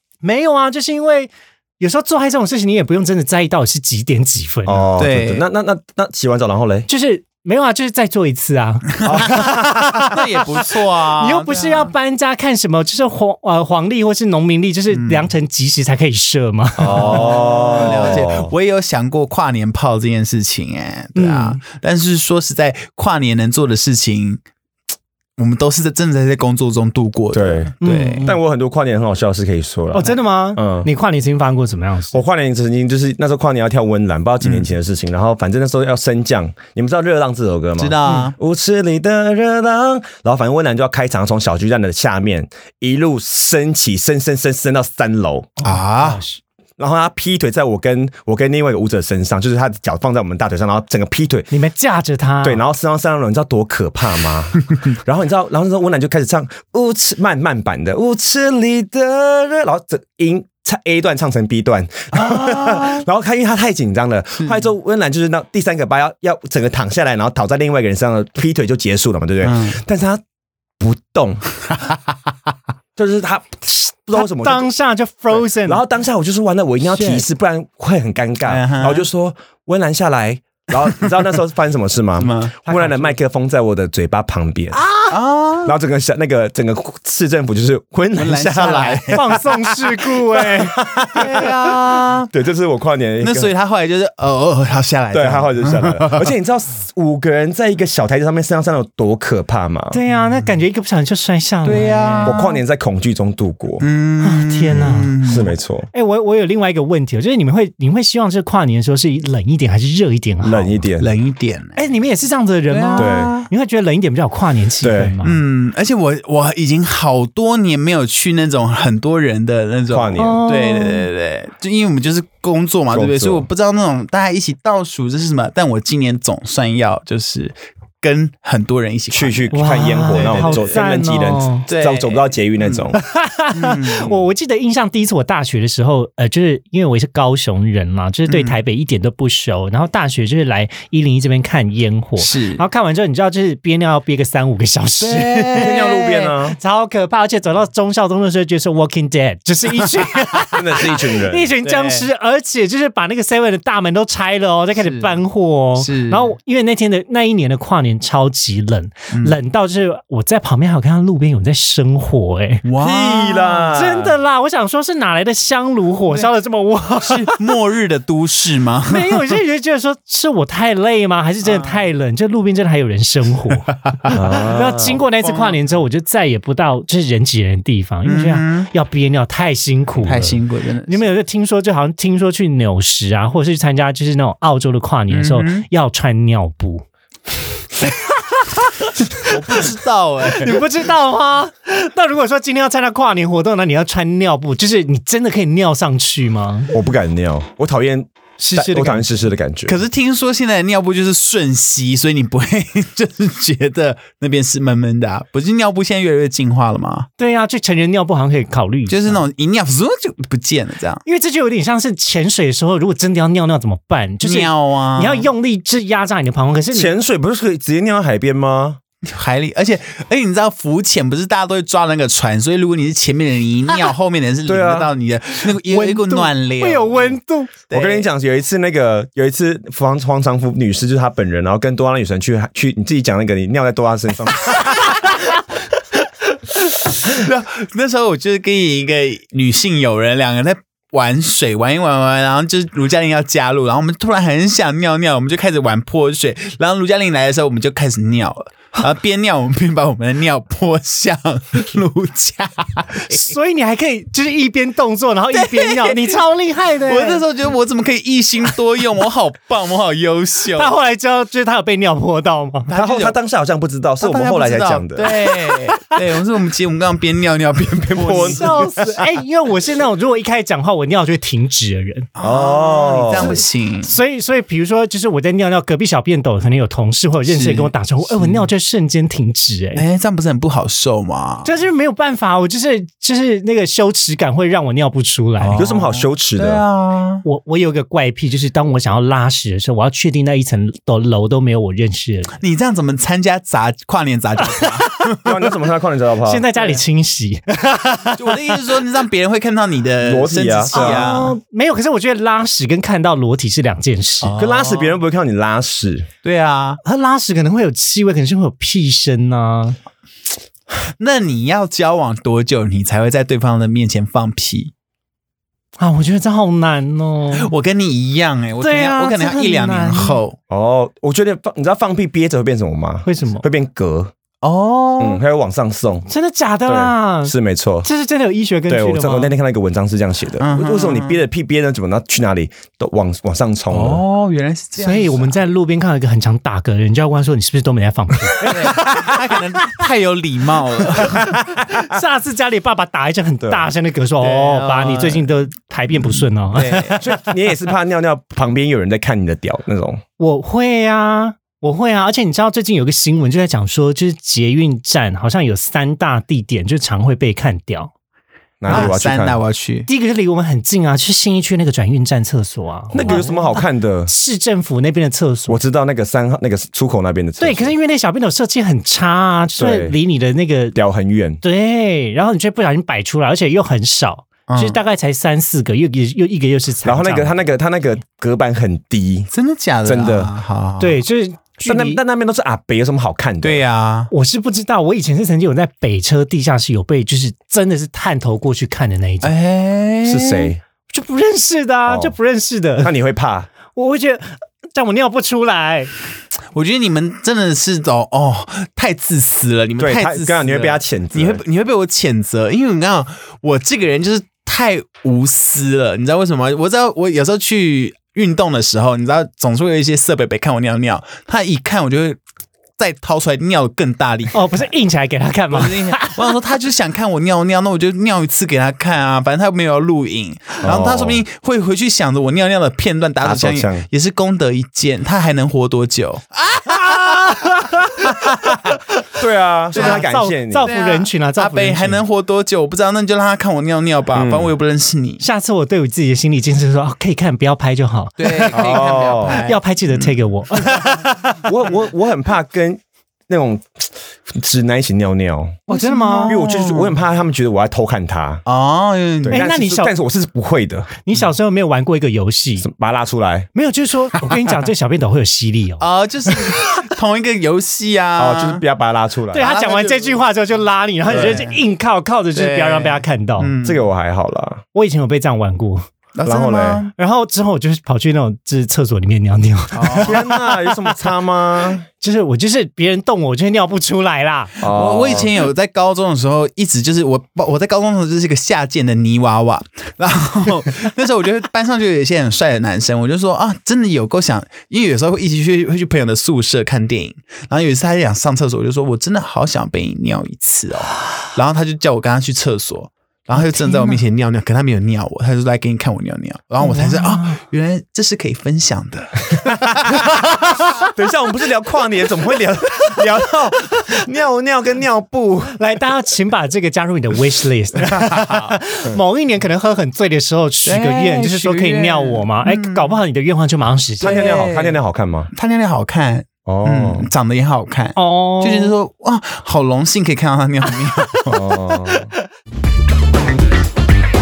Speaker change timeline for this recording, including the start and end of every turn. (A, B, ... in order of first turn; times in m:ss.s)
0:00.2-0:04.9 A
0:04.7-0:06.9 B
0:05.0-0:05.4 C
0:06.9-0:10.2 A
0:09.0-0:11.9 C
0:09.0-0:10.2 B
0:10.9-0:18.2 A
0:14.9-0:15.3 C
0:16.8-0:18.5 B
0:16.8-0:24.4 C
0:21.2-0:21.6 A
0:25.4-0:28.3 C
0:27.3-0:30.9 B
0:27.8-0:28.4 A
0:29.9-0:32.2 A
0:32.1-0:45.5 B
0:34.4-0:34.7 C
0:37.8-0:38.4 C
0:38.0-0:38.3 A
0:45.6-0:46.4 A
0:45.6-0:46.2 C
0:46.8-0:51.5 B
0:51.5-0:52.6 A
0:52.4-1:10.2 B
1:02.2-1:03.0 C
1:09.4-1:09.8 C
1:10.8-1:11.6 B
1:13.0-1:14.7 B
1:14.1-1:15.8 A
1:15.6-1:24.8 B
1:16.9-1:17.2 A
1:18.5-1:19.1 C
1:20.8-1:21.1 C
1:22.2-1:22.6 C
1:22.7-1:23.2 A
1:24.8-1:25.1 A
1:25.1-1:25.7 C
1:25.6-1:33.5 B
1:28.2-1:29.2 C
1:29.1-1:31.5 A
1:31.0-1:32.3 C
1:33.2-1:36.3 C
1:35.1-1:40.0 B
1:39.9-1:42.4 A
1:41.6-1:42.6 C
1:42.2-1:43.9 B
1:43.8-1:45.5 C
1:44.2-1:45.2 A
1:45.2-1:45.9 B
1:45.9-1:50.8 A
1:50.4-1:51.1 B
1:51.0-1:51.8 C
1:51.8-1:55.4 A
1:52.7-1:53.5 C
1:53.0-1:53.3 B
1:54.8-1:55.2 B
1:55.2-2:10.9 C
1:59.9-2:00.4 B
2:00.2-2:01.1 A
2:02.9-2:03.5 B
2:09.1-2:13.0 B
2:09.5-2:11.7 A
2:11.7-2:12.9 C
2:12.9-2:25.8 A
2:13.5-2:14.2 C
2:18.3-2:18.6 C
2:22.2-2:22.6 C
2:25.0-2:26.4 C
2:25.6-2:26.6 B
2:26.5-2:42.7 A
2:30.5-2:31.5 B
2:31.6-2:32.1 C
2:34.8-2:35.2 C
2:35.8-2:36.3 C
2:42.6-2:43.7 C
2:42.8-2:44.1 B
2:43.7-2:47.4 A
2:47.0-2:49.2 C
2:48.9-3:06.8 A
2:51.4-2:51.8 C
2:53.8-2:54.2 C
2:54.1-2:55.0 B
2:55.2-2:55.6 C
2:58.1-2:58.7 C
3:00.0-3:01.1 C
3:05.1-3:05.7 C
3:07.8-3:09.7 A
3:09.1-3:10.6 C
3:10.3-3:16.7 A
3:16.7-3:19.8 B
3:18.4-3:19.3 A
3:19.7-3:27.1 C
3:27.2-3:29.2 A
3:28.9-3:31.0 C
3:31.0-3:36.9 A
3:34.2-3:35.3 C
3:36.7-3:38.8 B
3:39.0-3:47.2 C
3:44.5-3:44.9 B
3:45.7-3:47.5 A
3:47.7-3:48.1 C
3:47.7-3:55.1 B
3:57.0-4:13.3 C
4:13.1-4:17.2 A
4:15.3-4:16.2 C
4:16.8-4:20.8 C
4:20.6-4:22.7 A
4:22.7-4:23.2 C
4:22.7-4:25.2 B
4:24.0-4:28.8 C
4:27.9-4:28.8 B
4:28.1-4:32.1 A
4:32.2-4:33.9 C
4:32.2-4:33.4 B
4:33.2-4:39.8 A
4:37.3-4:38.5 C
4:39.8-4:41.5 C
4:41.4-4:45.6 A
4:45.4-4:47.2 C
4:45.6-4:46.6 B
4:47.2-4:52.4 A
4:52.4-4:55.5 C
4:54.4-4:54.9 A
4:55.2-4:56.5 B
4:56.2-4:58.5 A
4:58.2-5:01.4 C
5:00.0-5:01.2 B
5:00.7-5:04.3 A
5:04.2-5:05.0 C
5:04.4-5:06.1 B
5:06.2-5:06.8 C
5:06.8-5:09.8 A
5:11.0-5:14.7 C
5:15.8-5:17.5 A
5:17.4-5:20.4 C
5:18.6-5:20.2 A
5:20.5-5:24.1 B
5:23.0-5:23.4 A
5:24.4-5:25.2 C
5:25.0-5:26.1 B
5:26.1-5:29.3 A
5:26.7-5:27.9 B
5:28.7-5:34.0 B
5:30.4-5:31.2 C
5:33.7-5:35.4 C
5:34.8-5:39.1 A
5:38.4-5:41.3 C
5:41.0-5:47.2 A
5:41.1-5:42.0 B
5:43.4-5:43.7 B
5:44.2-5:45.3 C
5:46.0-5:47.0 C
5:47.0-5:50.0 B
5:50.2-5:57.9 A
5:58.6-5:59.4 B
5:58.7-5:59.9 C
5:59.9-6:05.6 A
6:02.9-6:04.1 B
6:03.0-6:03.2 C
6:05.5-6:07.7 B
6:07.4-6:10.8 A
6:09.6-6:10.0 B
6:10.8-6:11.4 B
6:11.4-6:17.4 A
6:14.5-6:14.8 C
6:16.8-6:19.3 B
6:19.3-6:21.0 C
6:19.8-6:20.3 B
6:20.8-6:22.0 A
6:21.7-6:23.6 B
6:23.4-6:24.1 C
6:24.1-6:29.3 A
6:29.2-6:30.5 C
6:30.0-6:30.6 B
6:30.9-6:32.9 A
6:31.9-6:32.2 B
6:32.8-6:33.5 B
6:33.7-6:35.9 A
6:36.5-6:52.2 C
6:39.8-6:41.4 B
6:52.8-6:54.4 C
6:54.3-6:56.4 A
6:55.5-7:08.7 C
7:00.6-7:01.2 B
7:03.2-7:03.9 B
7:06.7-7:09.2 A
7:09.2-7:10.7 B
7:09.7-7:12.0 A
7:09.7-7:10.1 C
7:10.6-7:15.2 C
7:14.1-7:14.5 B
7:15.2-7:21.5 A
7:18.2-7:20.1 C
7:18.5-7:19.4 B
7:21.4-7:25.6 B
7:25.7-7:26.4 A
7:25.7-7:27.0 C
7:26.3-7:28.4 B
7:28.5-7:29.4 C
7:29.2-7:30.9 B
7:29.3-7:29.9 A
7:31.1-7:32.7 A
7:32.6-7:33.5 B
7:33.6-7:36.9 A
7:35.8-7:38.6 C
7:38.2-7:39.5 B
7:39.3-7:43.5 A
7:39.4-7:40.2 C
7:41.1-7:41.6 C
7:42.3-7:43.9 C
7:43.6-7:44.6 B
7:44.7-7:45.9 A
7:46.2-7:46.9 C
7:46.2-7:46.9 B
7:47.0-7:50.8 A
7:49.8-7:50.2 C
7:50.0-7:51.9 B
7:52.0-7:54.6 A
7:54.6-7:55.3 B
7:54.6-8:20.4 C
8:13.3-8:14.0 A
8:16.6-8:17.4 A
8:19.6-8:20.1 B
8:20.8-8:25.6 B
8:25.5-8:34.3 A
8:28.1-8:28.4 C
8:30.6-8:33.0 C
8:34.0-8:35.3 B
8:34.0-8:34.8 C
8:35.3-8:41.4 C
8:36.5-8:37.1 B
8:38.0-8:38.7 A
8:41.3-8:42.1 B
8:41.3-8:42.2 A